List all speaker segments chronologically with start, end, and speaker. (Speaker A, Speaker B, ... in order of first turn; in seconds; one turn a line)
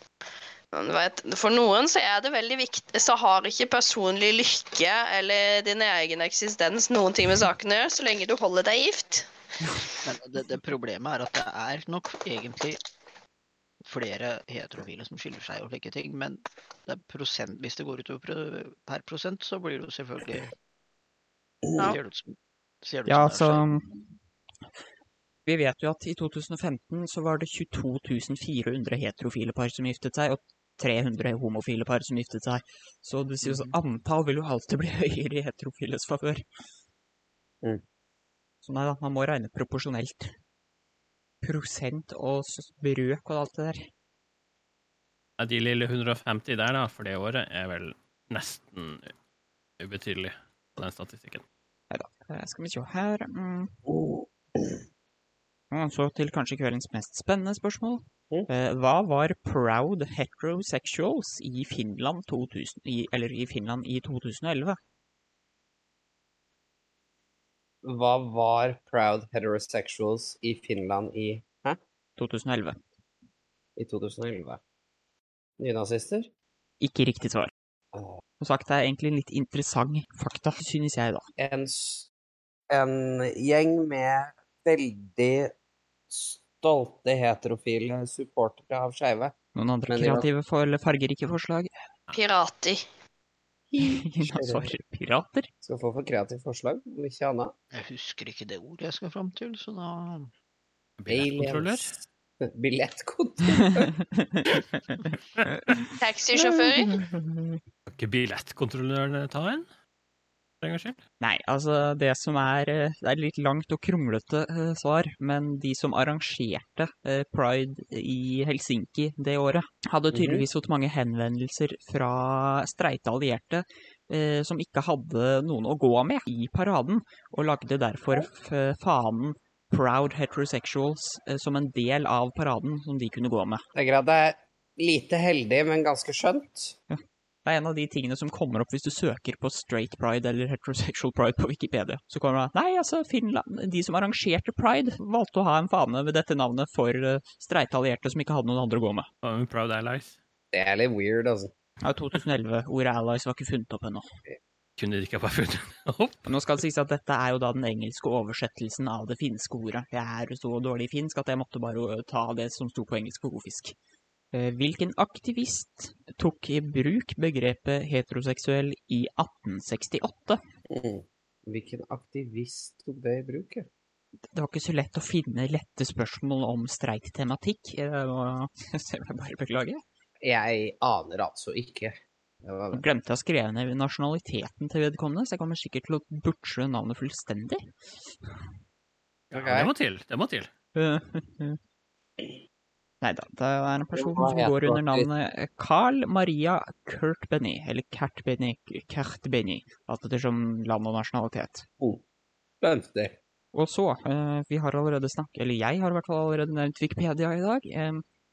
Speaker A: 0.7-9.3
Speaker B: 10.0-12.8
Speaker B: 13.8-20.5
Speaker B: 21.8-23.6
Speaker C: 23.1-23.8
Speaker C: 25.4-36.4
Speaker B: 33.5-33.7
Speaker C: 38.6-40.3
Speaker C: 41.4-43.9
Speaker D: 45.4-49.1
Speaker D: 49.8-51.4
Speaker C: 51.9-53.7
Speaker E: 53.9-54.8
Speaker C: 55.7-64.8
Speaker E: 67.8-71.8
Speaker C: 72.2-72.8
Speaker E: 73.8-74.6
Speaker E: 75.6-76.3
Speaker C: 76.8-77.5
Speaker E: 77.9-78.2
Speaker C: 78.4-81.2
Speaker E: 81.4-82.1
Speaker E: 82.7-85.5
Speaker E: 86.1-89.3
Speaker C: 89.5-91.7
Speaker E: 89.9-90.3
Speaker A: 92.1-92.8
Speaker E: 93.7-94.7
Speaker C: 93.8-95.5
Speaker E: 95.6-97.5
Speaker B: 97.7-100.3
Speaker D: 101.0-102.0
Speaker E: 101.1-101.9
Speaker E: 102.5-103.9
Speaker C: 103.6-107.6
Speaker A: 106.0-106.9
Speaker D: 107.9-109.7
Speaker D: 110.6-111.0
Speaker C: 111.2-133.6
Speaker E: 120.1-120.4
Speaker E: 133.7-136.8
Speaker C: 136.9-149.1
Speaker D: 149.2-150.2
Speaker E: 150.5-151.5
Speaker C: 151.8-154.1
Speaker D: 154.8-156.2
Speaker C: 156.2-163.8
Speaker C: 164.3-170.4
Speaker E: 170.7-173.7
Speaker C: 174.3-179.8
Speaker E: 180.2-182.8
Speaker C: 182.7-187.6
Speaker E: 189.3-189.7
Speaker D: 189.3-190.5
Speaker C: 190.7-191.6
Speaker C: 193.0-201.7
Speaker E: 193.9-195.1
Speaker E: 202.6-203.2
Speaker C: 203.5-208.0